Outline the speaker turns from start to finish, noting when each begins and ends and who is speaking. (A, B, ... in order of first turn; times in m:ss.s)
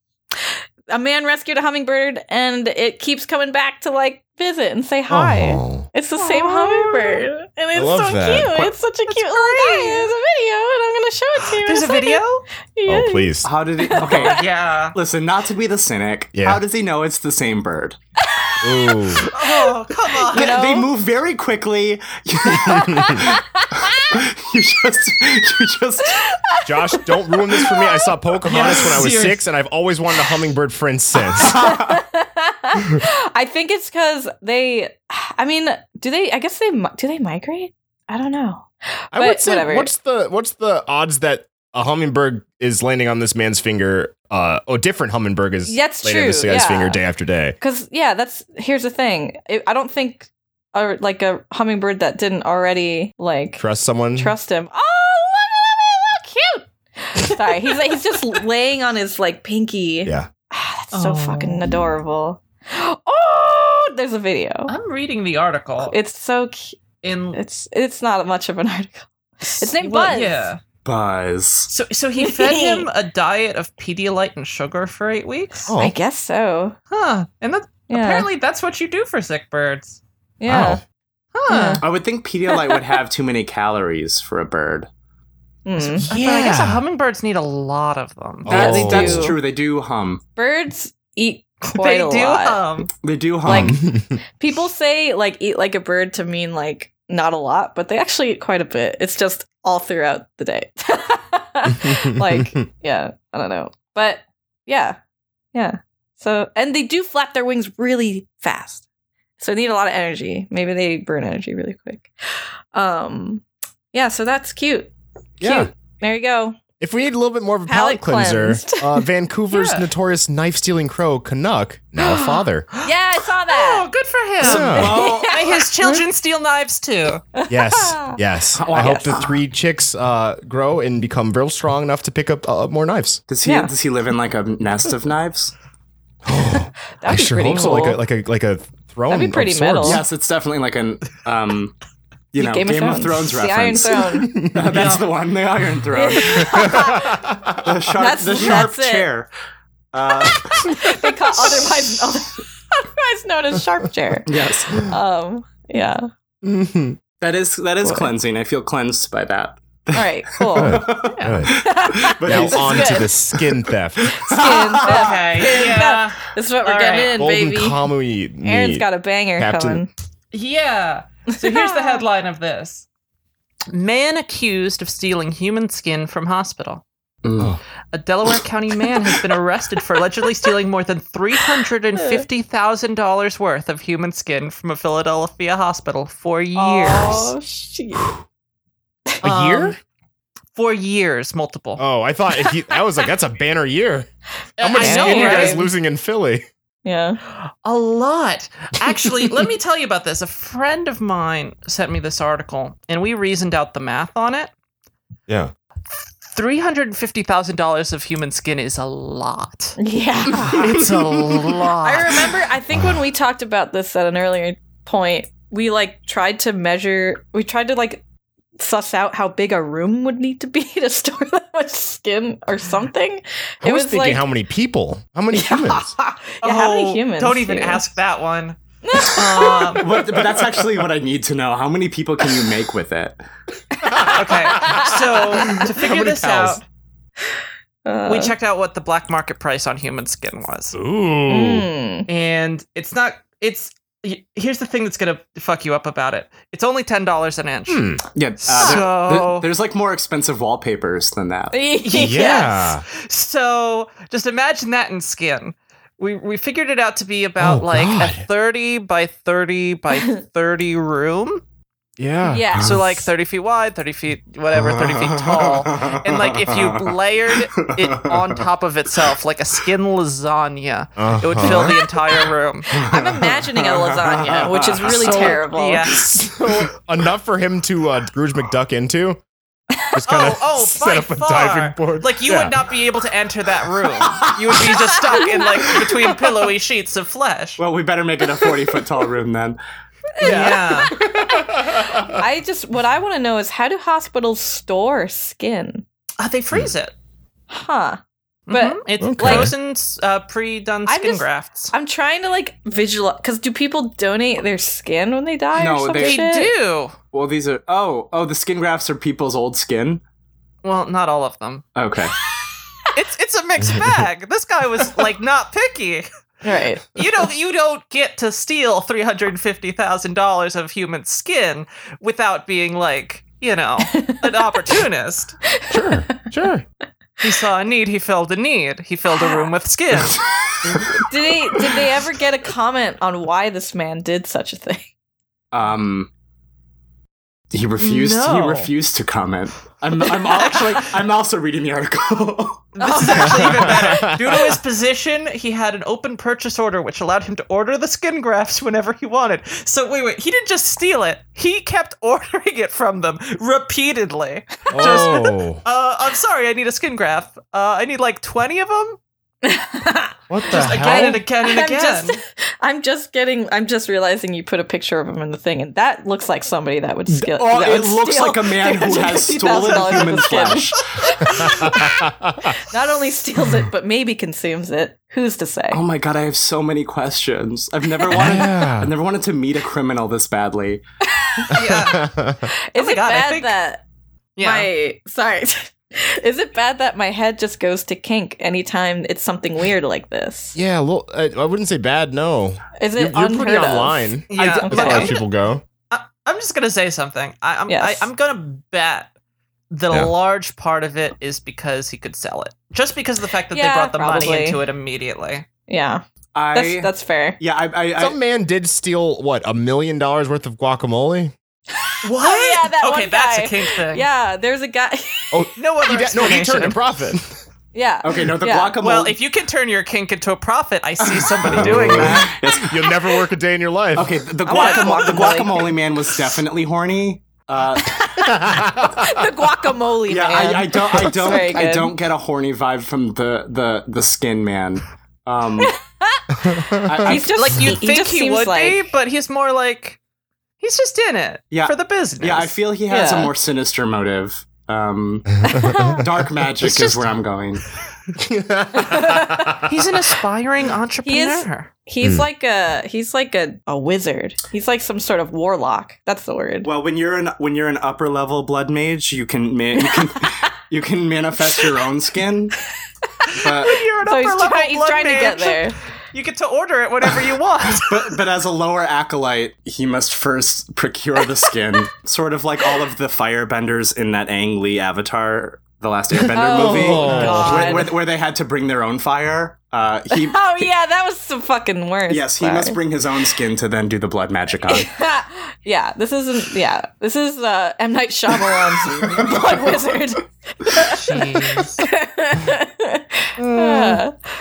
0:00.4-0:12.2 A
0:05.1-0:05.9 B
0:06.2-0:07.2 C
0:07.8-0:08.7 B
0:09.1-0:10.1 C
0:11.5-0:12.4 C
0:12.8-0:14.4 A
0:12.9-0:13.5 B
0:13.4-0:18.0 D
0:14.0-0:15.0 C
0:16.4-0:16.6 B
0:18.3-0:20.9 A
0:18.6-0:19.2 B
0:19.3-0:20.6 C
0:20.3-0:26.2 D
0:22.5-0:24.1 A
0:22.9-0:23.3 B
0:26.1-0:28.1 A
0:26.6-0:31.7 B
0:28.4-0:29.4 C
0:31.3-0:32.0 D
0:31.4-0:39.9 A
0:39.1-0:47.6 B
0:45.7-0:47.0 A
0:47.6-0:53.6 A
0:53.6-0:54.4 B
0:54.2-1:04.7 A
1:00.9-1:01.8 C
1:04.7-1:06.0 C
1:05.8-1:06.8 A
1:07.0-1:07.4 C
1:07.4-1:10.5 A
1:09.6-1:10.6 C
1:10.8-1:11.7 D
1:11.7-1:15.7 C
1:12.2-1:12.9 A
1:15.7-1:16.0 B
1:15.7-1:16.8 A
1:16.9-1:20.0 C
1:17.9-1:18.3 A
1:20.4-1:20.8 A
1:20.5-1:20.8 B
1:21.3-1:21.8 C
1:21.5-1:21.8 A
1:21.8-1:24.9 D
1:25.6-1:26.1 A
1:25.8-1:26.8 B
1:26.1-1:29.2 C
1:28.4-1:29.4 B
1:28.5-1:30.2 D
1:29.1-1:29.3 A
1:30.4-1:32.6 A
1:31.7-1:32.9 C
1:33.0-1:33.8 D
1:33.4-1:33.8 A
1:33.5-1:34.2 B
1:34.4-1:45.0 A
1:41.7-1:42.6 B
1:45.5-1:48.8 A
1:49.4-1:54.9 A
1:55.4-1:55.7 B
1:55.4-1:56.6 A
1:56.8-2:02.7 B
1:57.7-1:59.0 A
1:59.5-1:59.9 C
2:02.0-2:03.9 A
2:03.5-2:07.2 C
2:04.4-2:05.0 B
2:04.5-2:05.4 D
2:04.6-2:06.0 A
2:07.4-2:09.2 A
2:07.5-2:13.2 B
2:08.5-2:09.4 D
2:13.3-2:15.5 D
2:13.4-2:13.7 A
2:16.3-2:20.0 B
2:17.0-2:18.0 A
2:19.1-2:20.0 A
2:19.8-2:21.8 D
2:22.3-2:27.0 D
2:22.4-2:24.4 A
2:24.2-2:24.9 B
2:24.7-2:25.1 C
2:25.9-2:27.2 A
2:27.2-2:27.6 B
2:27.6-2:29.3 D
2:28.0-2:29.1 A
2:29.9-2:30.8 D
2:30.7-2:36.1 A
2:34.3-2:34.9 D
2:36.4-2:37.0 B
2:37.2-2:43.5 D
2:37.8-2:38.1 A
2:39.9-2:40.9 A
2:40.6-2:41.6 B
2:41.0-2:41.5 C
2:41.5-2:43.1 A
2:42.2-2:44.2 B
2:44.0-2:45.6 D
2:44.3-2:47.9 A
2:44.8-2:47.2 C
2:47.2-2:49.8 B
2:48.4-2:49.9 A
2:50.3-2:52.9 C
2:51.3-2:52.0 A
2:53.7-2:56.8 C
2:57.2-2:57.6 D
2:57.9-3:07.3 C
3:02.0-3:02.2 A
3:06.6-3:08.2 A
3:09.2-3:09.8 B
3:09.2-3:09.8 C
3:10.6-3:11.8 C
3:11.8-3:14.1 B
3:14.6-3:15.7 C
3:14.6-3:16.4 B
3:14.7-3:15.7 A
3:16.8-3:17.2 A
3:17.6-3:24.5 C
3:26.2-3:29.8 C
3:29.8-3:30.9 A
3:30.6-3:32.3 C
3:31.8-3:38.0 A
3:38.6-3:44.2 A
3:43.6-3:45.9 B
3:45.3-3:47.8 A
3:46.4-3:49.9 C
3:48.8-3:49.8 A
3:49.8-3:53.2 D
3:53.9-3:56.6 B
3:54.0-3:54.9 A
3:54.1-3:56.6 C
3:57.8-3:58.3 A
3:58.1-4:00.8 C
4:00.7-4:01.7 B
4:01.3-4:02.1 A
4:02.1-4:07.9 C
4:07.7-4:08.0 B
4:08.2-4:11.6 D
4:08.4-4:09.5 C
4:11.5-4:12.6 A
4:11.8-4:21.4 C
4:11.9-4:12.8 B
4:17.4-4:18.2 B
4:22.0-4:23.0 B
4:22.3-4:22.8 A
4:22.6-4:32.8 C
4:24.5-4:28.4 D
4:31.0-4:31.8 B
4:32.7-4:35.4 D
4:32.8-4:35.8 A
4:35.0-4:39.2 B
4:35.1-4:36.1 C
4:39.9-4:42.7 B
4:40.1-4:47.6 C
4:45.1-4:45.6 A
4:47.6-4:49.6 D
4:50.2-4:51.4 A
4:50.2-4:50.9 C
4:50.2-4:52.2 B
4:52.0-4:55.8 A
4:56.2-4:56.9 C
4:57.5-4:59.5 A
4:58.5-5:01.7 C
4:59.0-4:59.6 B
5:00.9-5:06.5 A
5:05.6-5:06.2 D
5:06.0-5:07.0 C
5:07.1-5:10.0 D
5:10.6-5:11.7 C
5:11.8-5:12.1 D
5:12.9-5:16.1 C
5:13.6-5:14.0 B
5:16.4-5:16.8 A
5:17.0-5:25.4 C
5:23.9-5:24.4 A
5:25.6-5:26.1 A
5:25.7-5:26.6 B
5:27.2-5:30.2 C
5:29.2-5:29.5 A
5:31.1-5:34.9 A
5:35.5-5:36.1 D
5:37.5-5:42.8 D
5:37.8-5:38.7 C
5:40.3-5:40.6 C
5:42.8-5:59.0 C
5:42.8-5:43.8 A
5:43.2-5:44.5 B
5:54.7-5:55.6 B
5:59.4-6:12.0 A
6:00.3-6:01.2 B
6:00.5-6:02.2 C
6:07.1-6:10.8 D
6:11.3-6:11.8 C
6:11.6-6:12.5 B
6:12.7-6:15.8 A
6:15.7-6:20.8 D
6:18.0-6:18.4 A
6:18.1-6:18.9 B
6:21.2-6:21.8 A
6:21.5-6:22.0 C
6:21.6-6:22.5 B
6:22.7-6:23.8 A
6:22.8-6:23.5 C
6:24.4-6:24.7 C
6:24.4-6:30.6 A
6:30.6-6:35.6 B
6:32.8-6:35.2 A
6:34.3-6:35.2 C
6:35.9-6:39.1 C
6:37.7-6:38.1 A
6:39.7-6:45.5 C
6:43.5-6:44.6 A
6:45.7-6:47.4 A
6:46.4-6:48.2 D
6:48.0-6:51.3 B
6:51.8-6:55.5 A
6:52.0-6:54.1 C
6:55.3-6:57.4 B
6:55.6-6:56.8 C
6:57.7-6:58.8 A
6:58.0-6:59.2 D
6:58.8-7:02.4 C
7:01.0-7:03.0 D
7:01.5-7:04.2 B
7:04.0-7:08.1 D
7:04.4-7:05.8 A
7:04.5-7:05.3 C
7:07.9-7:12.0 A
7:08.4-7:08.9 B
7:10.1-7:15.8 D
7:15.6-7:18.8 A
7:16.5-7:17.0 B
7:16.8-7:17.3 D
7:17.1-7:20.0 C
7:20.6-7:22.5 C
7:21.5-7:27.6 D
7:22.9-7:23.3 A
7:25.5-7:26.0 A
7:26.6-7:27.1 C
7:28.2-7:29.7 B
7:28.7-7:29.6 A
7:29.6-7:31.7 C
7:31.0-7:36.7 A
7:36.6-7:42.6 D
7:43.2-7:45.8 A
7:43.4-7:43.8 D
7:43.6-7:48.2 C
7:47.8-8:00.7 D
7:56.3-7:58.0 A
7:56.4-7:57.8 B
7:57.0-7:57.6 C
8:00.1-8:02.8 A
8:02.1-8:04.9 D
8:04.7-8:11.0 A
8:08.4-8:09.8 D
8:10.9-8:11.8 C
8:11.8-8:14.2 A
8:13.4-8:14.0 B